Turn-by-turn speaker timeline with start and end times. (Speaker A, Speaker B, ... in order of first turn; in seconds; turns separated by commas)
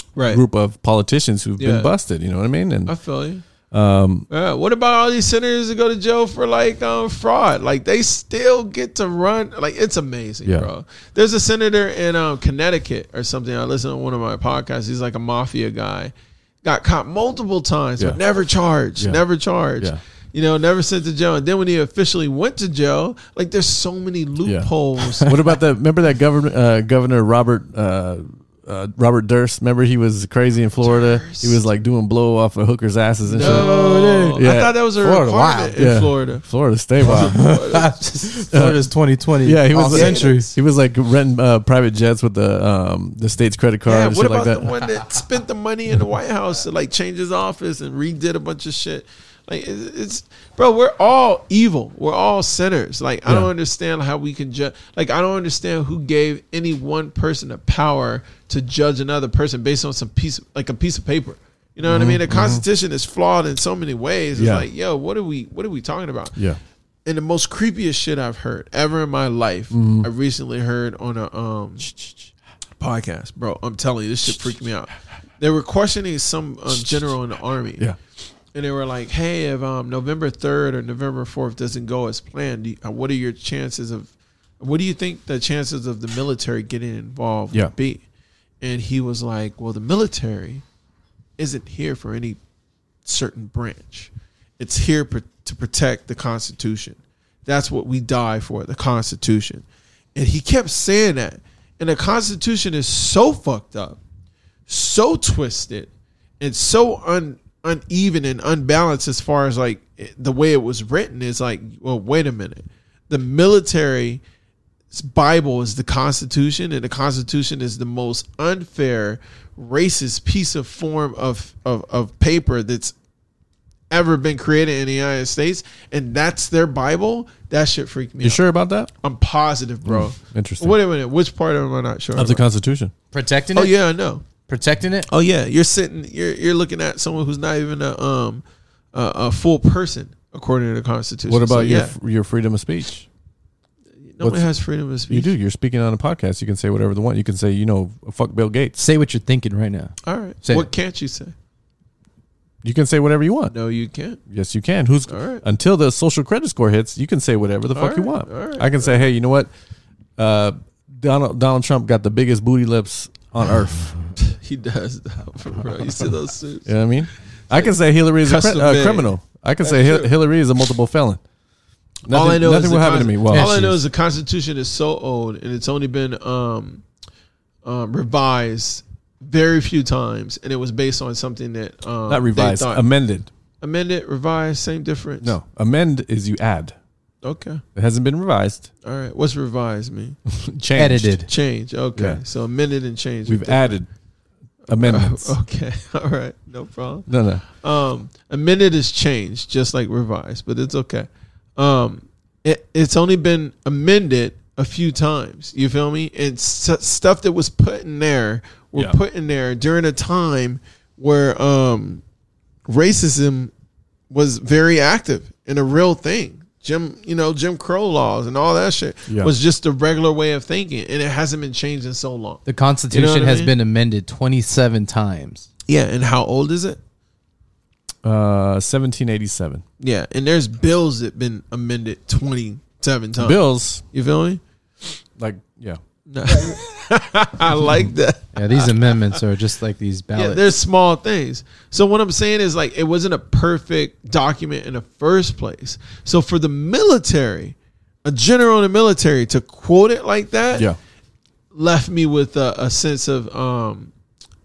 Speaker A: 0.2-0.4, Speaker B: 0.3-3.0, Speaker A: 1.6-1.9, Speaker A: 2.9-3.5, Speaker B: 3.6-4.3, Speaker A: 4.3-25.3, Speaker B: 24.4-33.7, Speaker A: 30.8-31.6, Speaker A: 33.2-36.5, Speaker C: 33.4-34.4, Speaker B: 34.4-34.8, Speaker C: 35.0-35.8, Speaker B: 35.8-37.5, Speaker A: 37.0-38.1, Speaker C: 37.0-40.5, Speaker B: 38.5-38.8, Speaker B: 39.4-44.7, Speaker A: 39.8-40.5, Speaker A: 43.9-66.4, Speaker B: 61.9-62.6, Speaker B: 64.3-64.7, Speaker A: 67.0-71.9, Speaker B: 69.7-70.1, Speaker A: 72.8-77.9, Speaker A: 78.5-88.0, Speaker A: 88.6-90.6, Speaker A: 91.4-92.4, Speaker A: 93.0-104.0, Speaker A: 104.7-114.2, Speaker A: 114.9-123.0, Speaker A: 123.9-128.4, Speaker B: 128.2-128.9, Speaker A: 129.0-132.4, Speaker B: 129.8-130.8, Speaker B: 132.2-132.9, Speaker C: 133.1-133.8, Speaker A: 133.6-134.2, Speaker C: 134.5-135.1, Speaker A: 135.1-141.9, Speaker B: 141.3-143.1, Speaker A: 144.0-145.3, Speaker B: 144.2-144.5, Speaker B: 145.1-148.8, Speaker C: 148.8-150.7, Speaker A: 150.0-151.3, Speaker B: 152.6-153.5, Speaker A: 153.5-154.2, Speaker B: 154.3-159.5, Speaker A: 155.1-155.4, Speaker A: 157.8-158.9, Speaker B: 160.2-164.0, Speaker A: 164.2-166.8, Speaker B: 166.7-171.2, Speaker A: 168.2-169.1, Speaker A: 169.6-170.1, Speaker B: 172.1-173.8, Speaker A: 172.1-176.8, Speaker C: 173.3-173.6, Speaker A: 177.6-182.9, Speaker B: 182.1-183.3, Speaker A: 183.6-185.3, Speaker B: 185.2-186.8, Speaker A: 187.2-187.6, Speaker B: 187.8-188.7, Speaker A: 188.8-190.2, Speaker B: 190.3-191.2, Speaker C: 190.8-191.3, Speaker A: 191.3-193.8, Speaker B: 192.0-192.2, Speaker B: 193.3-193.9, Speaker B: 194.7-195.3, Speaker A: 194.7-212.0, Speaker B: 197.1-197.4, Speaker A: 212.7-213.5, Speaker A: 214.1-223.5, Speaker B: 219.1-219.3, Speaker C: 222.5-225.5, Speaker A: 225.7-226.8, Speaker B: 228.0-229.6, Speaker A: 229.8-234.4, Speaker B: 233.2-233.8, Speaker B: 235.2-235.8, Speaker A: 236.1-239.2, Speaker C: 238.3-240.5, Speaker A: 240.1-250.7, Speaker A: 251.5-253.9